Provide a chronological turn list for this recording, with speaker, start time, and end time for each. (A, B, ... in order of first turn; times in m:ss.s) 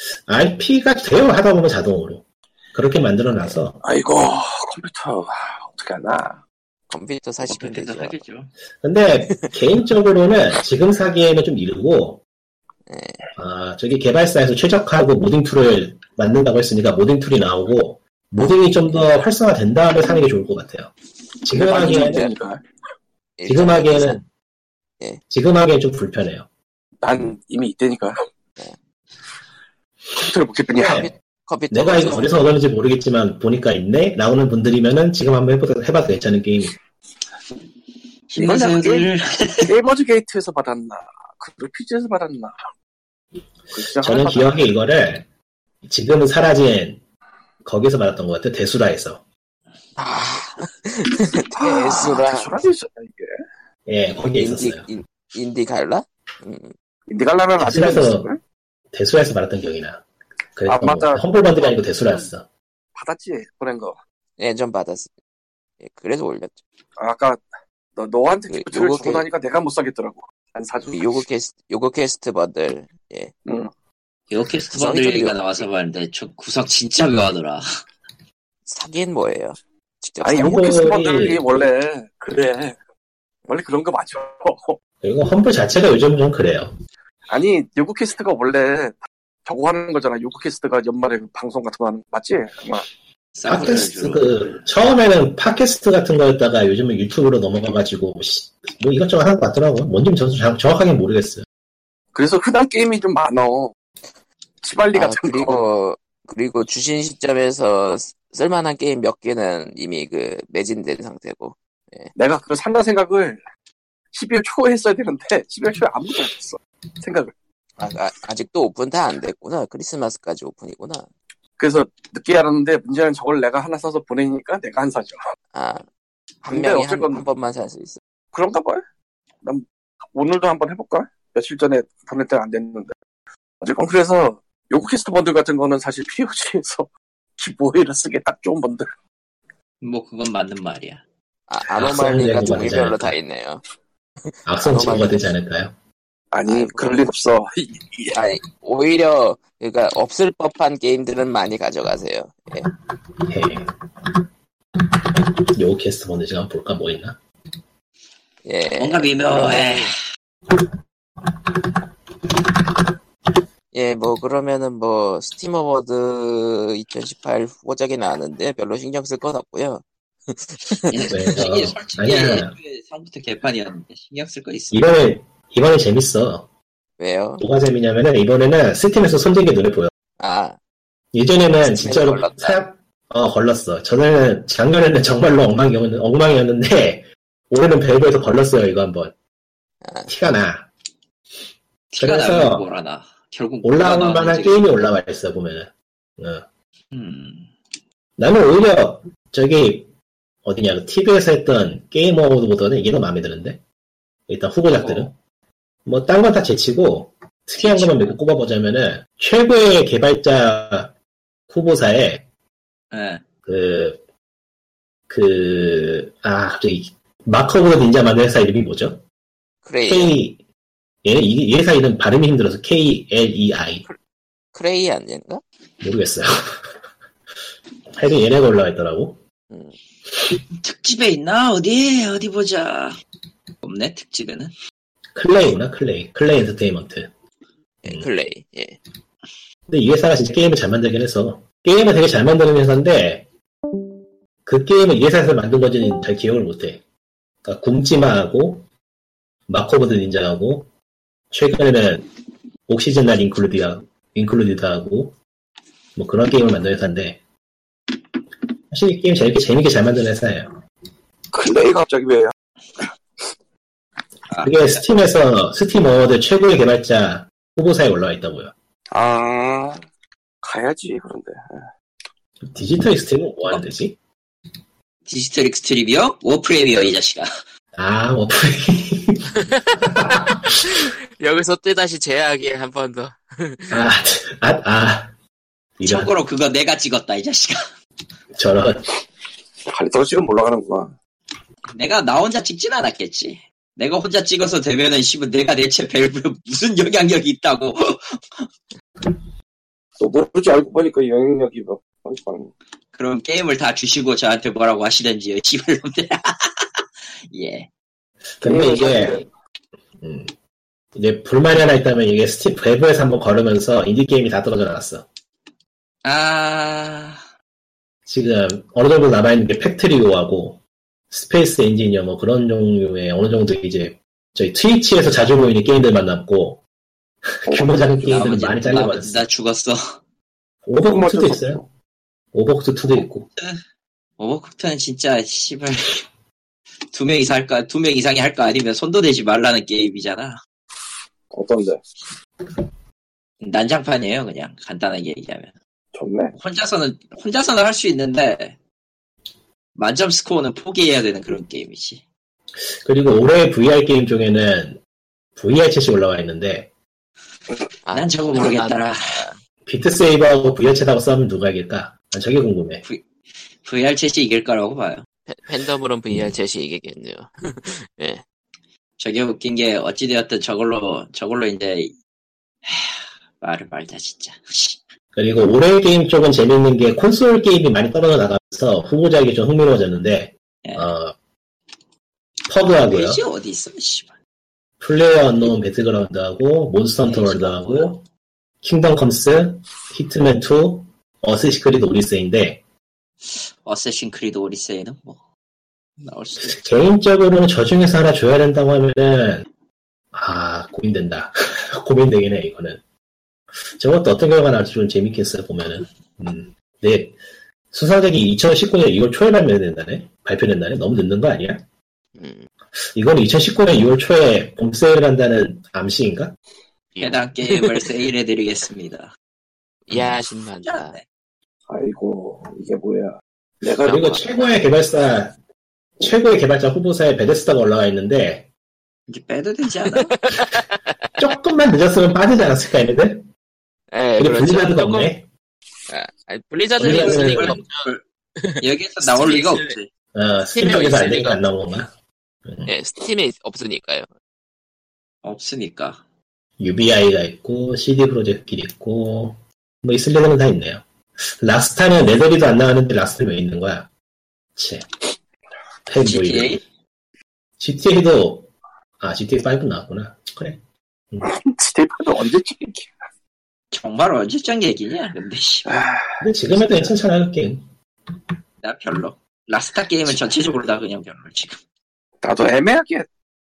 0:00.3-0:03.8 A
0:03.8-0:06.4 B
0:06.9-0:08.2 C
0:07.4-0:08.5 D
0:08.8-0:12.2 A
0:12.9-0:13.2 C
0:13.4-0:22.3 A
0:21.5-0:22.6 B
0:21.7-0:22.2 C
0:23.4-0:24.2 C
0:23.4-0:24.2 A
0:25.3-0:26.5 A
0:27.0-0:28.2 B
0:30.1-0:31.1 B
0:30.7-0:31.1 A
0:30.9-0:32.4 C
0:31.7-0:36.8 A
0:38.3-0:39.7 D
0:38.4-0:39.1 B
0:39.6-0:42.6 B
0:43.7-0:44.7 B
0:44.0-0:45.2 A
0:45.8-0:47.0 A
0:47.6-0:49.2 A
0:50.0-0:52.5 C
0:51.5-0:53.4 B
0:53.9-0:54.8 A
0:54.4-0:56.7 C
0:57.1-0:58.4 B
0:57.6-0:58.3 A
0:58.9-1:02.5 A
1:00.7-1:02.2 B
1:02.9-1:04.0 B
1:04.4-1:05.1 C
1:05.8-1:06.6 C
1:07.0-1:07.4 B
1:08.0-1:11.1 B
1:08.5-1:09.3 C
1:10.9-1:13.3 C
1:14.3-1:17.6 D
1:14.7-1:15.6 C
1:18.6-1:20.9 C
1:20.2-1:22.8 B
1:20.4-1:21.4 A
1:23.5-1:24.8 B
1:25.0-1:26.7 A
1:27.3-1:32.8 B
1:33.4-1:34.4 D
1:33.4-1:41.4 A
1:42.1-1:43.7 B
1:44.6-1:45.6 B
1:44.9-1:52.1 C
1:52.2-1:53.4 B
1:54.1-1:57.3 B
1:57.8-2:01.1 C
2:01.6-2:05.2 B
2:05.5-2:05.8 C
2:06.4-2:08.0 C
2:06.4-2:07.2 B
2:08.3-2:08.8 B
2:09.4-2:13.0 B
2:13.6-2:18.9 B
2:19.8-2:21.0 D
2:21.5-2:23.6 C
2:21.8-2:23.2 A
2:24.4-2:25.7 A
2:24.6-2:25.2 C
2:26.3-2:28.2 B
2:26.5-2:27.0 C
2:28.1-2:32.7 C
2:33.2-2:33.7 A
2:34.9-2:37.2 A
2:38.4-2:39.9 C
2:38.8-2:40.0 D
2:43.7-2:51.0 C
2:50.9-2:54.8 D
2:51.1-2:52.5 A
2:54.7-2:56.4 A
2:57.0-2:57.4 C
2:57.4-2:59.9 A
3:00.2-3:00.6 C
3:01.1-3:09.1 A
3:01.6-3:02.6 C
3:09.8-3:10.1 C
3:10.1-3:10.7 A
3:11.9-3:14.6 D
3:12.0-3:12.6 A
3:13.6-3:16.4 A
3:16.9-3:17.5 D
3:18.2-3:19.9 A
3:20.4-3:23.6 A
3:24.3-3:25.1 A
3:24.8-3:25.1 D
3:25.8-3:30.9 A
3:27.6-3:28.1 D
3:31.5-3:32.2 A
3:32.9-3:33.2 D
3:33.4-3:34.0 A
3:35.1-3:39.0 A
3:39.6-3:40.2 C
3:39.8-3:40.4 A
3:41.0-3:43.8 A
3:44.5-3:45.4 C
3:45.8-3:46.6 A
3:47.9-3:49.2 A
3:49.5-3:49.8 C
3:50.6-3:53.0 D
3:53.6-3:54.5 D
3:55.1-3:57.1 A
3:57.8-3:58.8 C
3:59.7-4:03.2 A
4:04.4-4:06.8 A
4:07.4-4:08.7 A
4:09.5-4:10.7 A
4:11.3-4:12.1 A
4:12.7-4:15.1 A
4:16.0-4:17.2 A
4:18.7-4:20.6 A
4:21.3-4:22.8 B
4:24.3-4:24.7 D
4:24.4-4:28.5 A
4:28.9-4:29.8 B
4:30.4-4:31.7 B
4:32.4-4:34.0 A
4:35.0-4:37.3 D
4:37.8-4:40.8 A
4:39.5-4:43.8 C
4:43.7-4:45.1 A
4:45.8-4:46.1 A
4:45.8-4:47.6 D
4:48.3-4:48.8 A
4:49.7-4:50.9 B
4:51.7-4:58.5 D
5:00.0-5:02.5 B
5:02.9-5:07.7 D
5:08.4-5:09.2 A
5:08.4-5:09.2 B
5:10.0-5:10.3 A
5:10.9-5:15.0 A
5:16.0-5:17.2 D
5:18.1-5:20.6 A
5:21.1-5:26.6 A
5:27.2-5:29.2 A
5:27.5-5:28.2 B
5:28.1-5:30.0 D
5:30.6-5:31.6 A
5:30.9-5:31.6 B
5:32.3-5:33.3 A
5:34.2-5:36.0 D
5:36.9-5:40.4 D
5:41.3-5:41.8 B
5:43.4-5:45.5 D
5:45.9-5:46.3 B
5:46.3-5:48.6 D
5:49.8-5:52.0 D
5:52.8-5:54.8 A
5:55.4-5:56.7 A
5:57.8-5:59.4 C
5:57.9-5:59.2 D
5:59.6-6:02.8 A
6:03.6-6:05.0 D
6:05.3-6:08.2 C
6:09.0-6:11.9 D
6:12.6-6:14.8 D
6:15.2-6:21.1 A
6:20.6-6:20.9 D
6:22.5-6:23.2 A
6:22.8-6:24.1 D
6:24.8-6:28.0 A
6:27.0-6:28.0 D
6:28.6-6:32.6 A
6:33.3-6:35.2 D
6:36.0-6:36.7 D
6:36.4-6:39.5 A
6:40.1-6:42.8 A
6:43.8-6:47.2 A
6:47.7-6:51.6 A
6:52.2-6:52.5 C
6:52.9-6:56.3 A
6:56.9-6:57.8 C
6:57.0-6:59.1 D
6:59.9-7:01.0 C
7:00.6-7:01.0 D
7:01.7-7:04.1 B
7:03.8-7:05.3 A
7:03.8-7:04.5 C
7:06.0-7:08.5 A
7:09.1-7:10.2 D
7:10.1-7:11.0 C
7:11.2-7:13.3 A
7:13.9-7:15.1 C
7:14.2-7:15.3 A
7:15.9-7:19.7 C
7:16.8-7:17.6 A
7:16.8-7:18.0 D
7:18.6-7:19.9 D
7:20.1-7:21.9 A
7:20.5-7:21.4 C
7:22.6-7:24.1 C
7:25.2-7:26.0 D
7:26.6-7:33.9 A
7:34.6-7:34.8 A
7:35.9-7:36.6 A
7:36.0-7:36.6 D
7:37.6-7:38.5 A
7:39.0-7:40.6 A
7:41.2-7:42.9 B
7:43.7-7:45.7 D
7:45.7-7:46.9 B
7:46.2-7:47.6 A
7:48.6-7:51.6 D
7:52.2-7:53.1 B